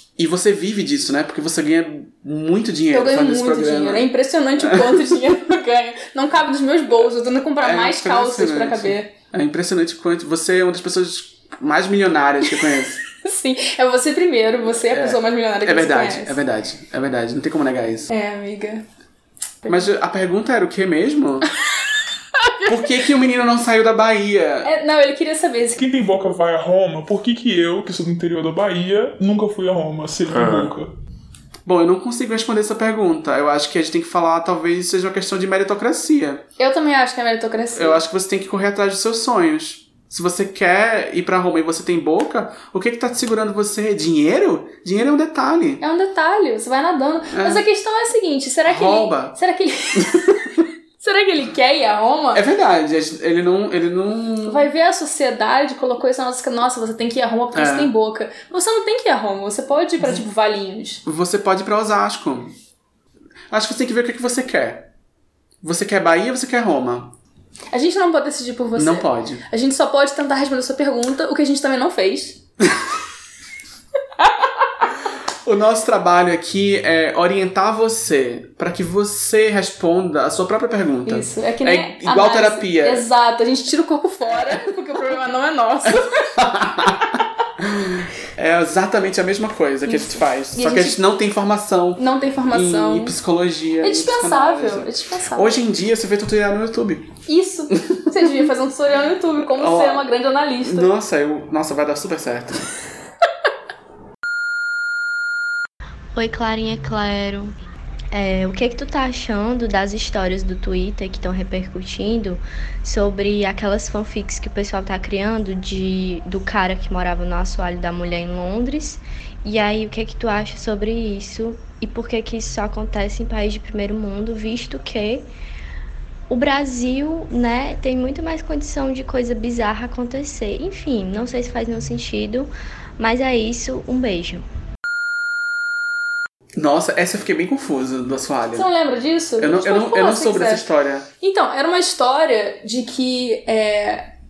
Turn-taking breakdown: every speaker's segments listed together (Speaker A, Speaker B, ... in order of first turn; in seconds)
Speaker A: 0.2-5.0, 7.6-13.0, 14.9-18.1, 19.7-21.5, 22.6-24.7, 31.6-36.4, 37.7-45.8, 47.3-47.6, 48.6-49.4, 50.0-50.4, 52.3-54.7, 57.5-57.9, 61.0-62.5, 63.5-64.9, 65.6-67.1, 68.7-69.4, 75.4-83.0, 86.4-97.1, 97.7-98.2, 99.5-100.1, 100.6-102.7, 136.6-138.7, 139.4-141.1
Speaker B: 2.9-9.1, 13.2-16.4, 18.1-18.8, 22.4-22.7, 24.6-25.8, 36.6-38.0, 45.8-50.4, 51.0-52.4, 54.5-61.0, 67.7-72.4, 81.0-86.3, 89.9-91.0, 92.0-93.2, 93.8-95.6, 97.3-100.9, 138.5-140.6, 141.2-144.1
Speaker C: 25.8-30.9
Speaker D: 106.1-107.5, 108.1-125.3, 126.3-134.4